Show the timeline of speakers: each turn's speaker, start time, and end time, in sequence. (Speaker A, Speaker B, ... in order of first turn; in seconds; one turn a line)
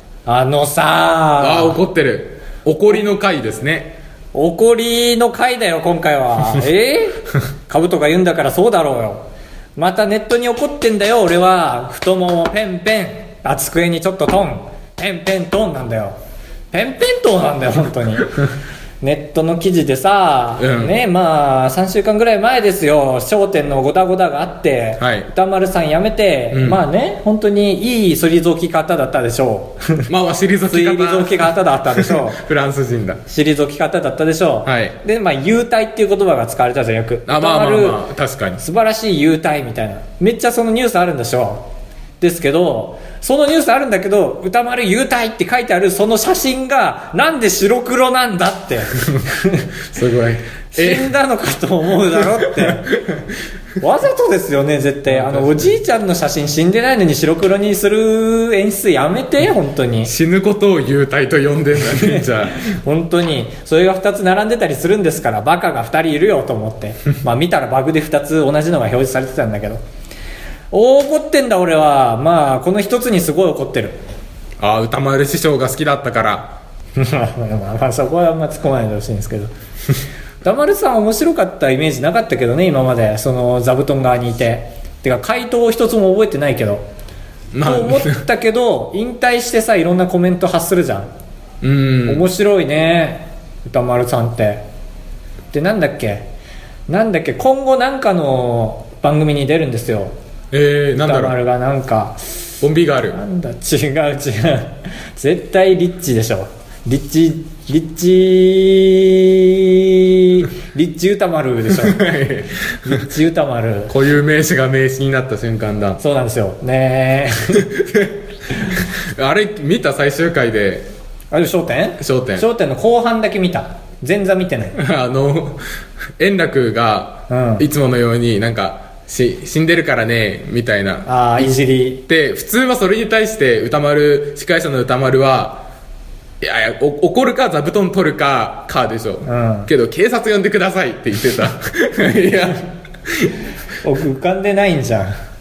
Speaker A: 0.2-1.8
Speaker B: 1.4-4.0
Speaker A: 4.3-9.2
Speaker A: 9.8-16.2
Speaker A: 16.7-18.5
Speaker A: 19.0-30.1
Speaker B: 20.6-21.0
Speaker B: 25.0-25.3
Speaker B: 26.5-26.8
Speaker B: 30.1-33.2
Speaker A: 30.7-32.4
Speaker A: 33.3-38.0
Speaker B: 34.6-35.0
Speaker B: 37.3-38.6
Speaker A: 38.6-41.6
Speaker A: 42.2-49.7
Speaker B: 49.9-51.1
Speaker A: 50.7-52.9
Speaker B: 52.1-53.2
Speaker A: 53.8-60.1
Speaker B: 55.1-55.7
Speaker B: 60.0-62.7
Speaker A: 61.9-69.8
Speaker A: 70.7-74.0
Speaker B: 74.6-76.6
Speaker A: 77.0-79.5
Speaker A: 80.4-86.8
Speaker B: 87.5-88.2
Speaker A: 87.6-91.1
Speaker B: 91.6-92.3
Speaker A: 92.1-94.6
Speaker A: 95.5-96.3
Speaker A: 96.9-100.1
Speaker B: 100.5-101.3
Speaker A: 101.0-102.4
Speaker B: 102.6-103.2
Speaker A: 103.1-112.0
Speaker B: 111.7-113.1
Speaker A: 112.8-113.9
Speaker B: 113.9-116.0
Speaker A: 116.0-117.7
Speaker B: 117.5-120.9
Speaker A: 121.3-124.8
Speaker B: 122.0-122.5
Speaker B: 124.7-125.6
Speaker B: 126.2-131.1
Speaker A: 127.3-127.6
Speaker A: 131.1-132.0
Speaker B: 132.1-135.7
Speaker B: 136.4-143.3
Speaker A: 139.2-139.7
Speaker A: 143.8-145.1